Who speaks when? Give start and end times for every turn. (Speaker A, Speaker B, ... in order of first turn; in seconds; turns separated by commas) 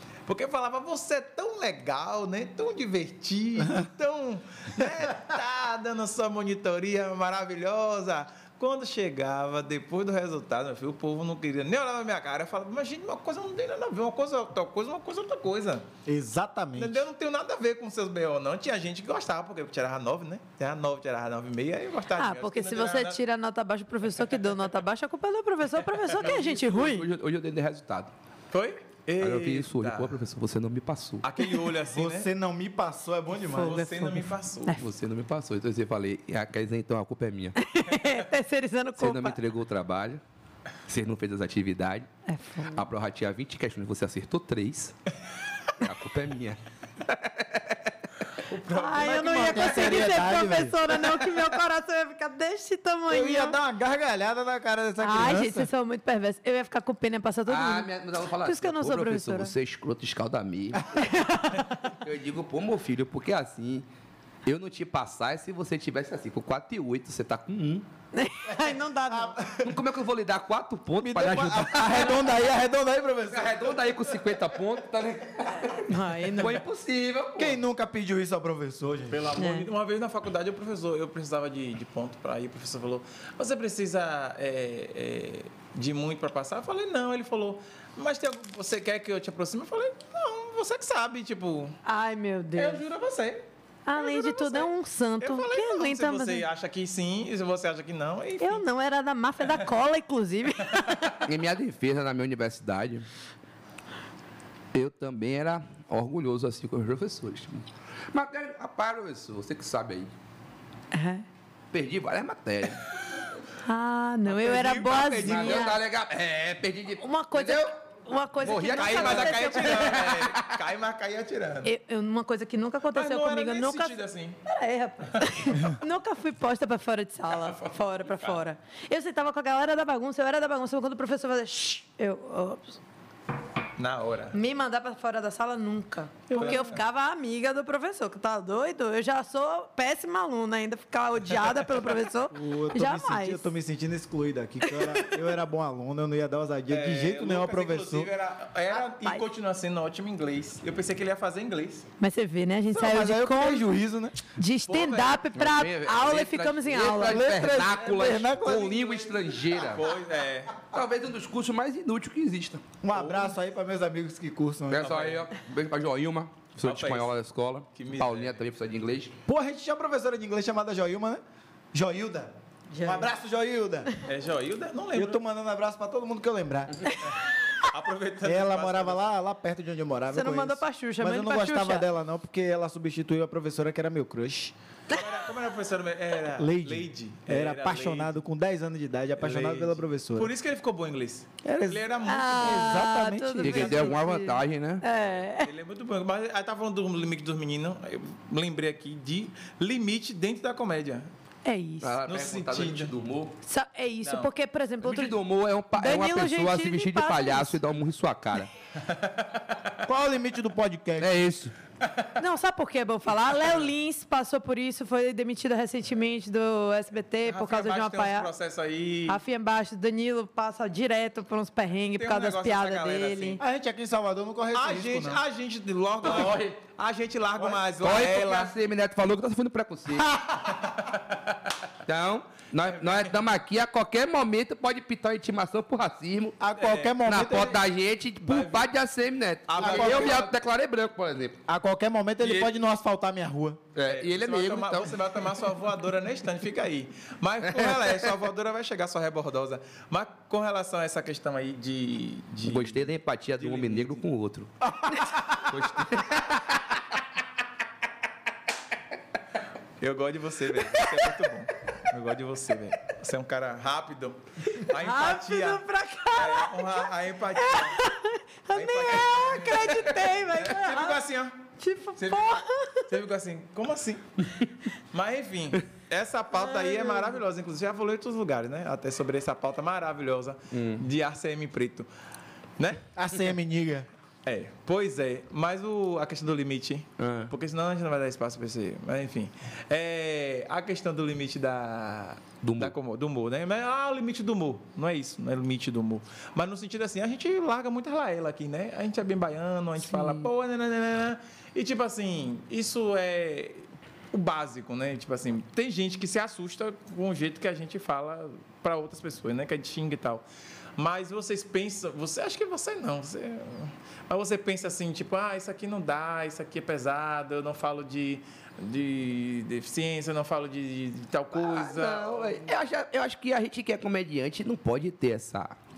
Speaker A: 0.3-15.9, Speaker B: 16.1-17.0, Speaker A: 16.8-23.2, Speaker C: 22.2-27.1, Speaker D: 26.2-28.1, Speaker A: 28.5-30.2, Speaker D: 29.2-31.3, Speaker A: 31.2-32.3, Speaker B: 31.8-33.8, Speaker C: 33.5-34.8, Speaker A: 33.6-34.7, Speaker D: 34.8-37.6, Speaker C: 37.6-39.4, Speaker D: 39.0-40.2, Speaker D: 40.9-42.1, Speaker C: 42.3-42.9, Speaker D: 42.7-45.0, Speaker D: 45.8-47.9, Speaker A: 48.4-50.1, Speaker C: 48.7-53.6, Speaker B: 49.0-50.8, Speaker B: 53.1-55.7, Speaker C: 55.0-59.5, Speaker D: 57.5-61.0, Speaker C: 60.9-61.9, Speaker D: 61.9-63.9, Speaker D: 64.5-67.9, Speaker C: 68.1-69.4, Speaker B: 69.1-69.7, Speaker D: 69.6-72.5, Speaker B: 71.0-73.9, Speaker D: 73.3-77.6, Speaker C: 75.7-76.6, Speaker B: 77.4-79.3, Speaker A: 79.1-91.8, Speaker C: 79.3-79.7, Speaker C: 91.8-92.8, Speaker A: 92.5-98.6, Speaker C: 93.9-96.5, Speaker C: 98.4-101.2, Speaker D: 101.2-103.1, Speaker D: 104.7-110.1, Speaker C: 110.9-111.2, Speaker D: 111.7-112.9, Speaker C: 113.7-115.8, Speaker A: 114.3-115.7, Speaker D: 115.2-117.7, Speaker C: 117.0-120.1, Speaker D: 118.4-120.6, Speaker A: 118.4-121.7, Speaker C: 121.6-132.8, Speaker A: 122.9-124.4, Speaker A: 127.3-128.4, Speaker A: 133.8-134.4, Speaker C: 134.3-143.5, Speaker B: 136.3-136.7, Speaker A: 136.3-136.8, Speaker B: 142.3-148.1, Speaker C: 144.7-145.1, Speaker A: 146.7-151.9, Speaker C: 148.9-149.2, Speaker C: 152.0-153.7, Speaker B: 152.7-154.2, Speaker C: 154.3-157.3, Speaker A: 154.7-155.3, Speaker D: 155.3-159.9, Speaker B: 157.0-159.2, Speaker A: 159.6-160.6, Speaker D: 160.7-162.7, Speaker B: 162.8-164.9, Speaker A: 162.9-163.3, Speaker D: 164.7-169.2, Speaker A: 164.8-165.3, Speaker A: 166.6-167.1, Speaker A: 167.8-168.4, Speaker B: 169.3-171.2, Speaker B: 171.7-173.9, Speaker C: 172.7-173.1, Speaker A: 174.1-175.2, Speaker B: 174.9-176.8, Speaker A: 177.1-179.0, Speaker B: 178.2-184.5, Speaker C: 180.1-181.8, Speaker A: 184.9-188.1, Speaker B: 186.3-190.3, Speaker A: 189.2-192.9, Speaker B: 191.4-193.9, Speaker C: 192.1-195.5, Speaker D: 193.4-194.8, Speaker A: 195.4-201.1, Speaker C: 201.4-202.0, Speaker D: 201.8-203.3, Speaker A: 202.1-202.9, Speaker C: 203.4-205.2, Speaker A: 204.0-204.3, Speaker D: 204.8-208.5, Speaker C: 205.8-207.6, Speaker A: 208.8-209.7, Speaker B: 209.9-211.1, Speaker D: 211.0-211.6, Speaker A: 211.8-212.2, Speaker C: 212.2-218.3, Speaker A: 217.3-219.2, Speaker C: 219.1-223.4, Speaker A: 221.9-223.4, Speaker B: 223.4-225.2, Speaker A: 224.5-228.5, Speaker D: 226.0-226.4, Speaker D: 227.8-230.2, Speaker D: 231.8-236.4, Speaker A: 232.8-233.1, Speaker B: 236.4-237.6, Speaker A: 236.6-237.0, Speaker D: 237.0-241.4, Speaker A: 238.2-238.7, Speaker A: 239.5-240.3, Speaker B: 239.6-240.3, Speaker B: 241.5-243.6, Speaker A: 242.2-242.5, Speaker D: 243.8-245.0, Speaker A: 243.8-254.0, Speaker D: 247.4-248.1, Speaker D: 252.4-256.6, Speaker A: 259.8-265.6, Speaker C: 264.6-271.0, Speaker A: 266.1-267.8, Speaker A: 268.5-271.4, Speaker C: 271.6-272.9, Speaker A: 272.0-274.2, Speaker A: 274.9-281.9, Speaker C: 276.4-277.2, Speaker D: 280.5-280.9, Speaker A: 282.6-282.8, Speaker B: 282.9-283.9, Speaker A: 284.2-310.2, Speaker D: 287.0-287.3, Speaker D: 292.4-292.7, Speaker D: 299.9-300.3, Speaker A: 310.8-322.5, Speaker D: 321.3-325.6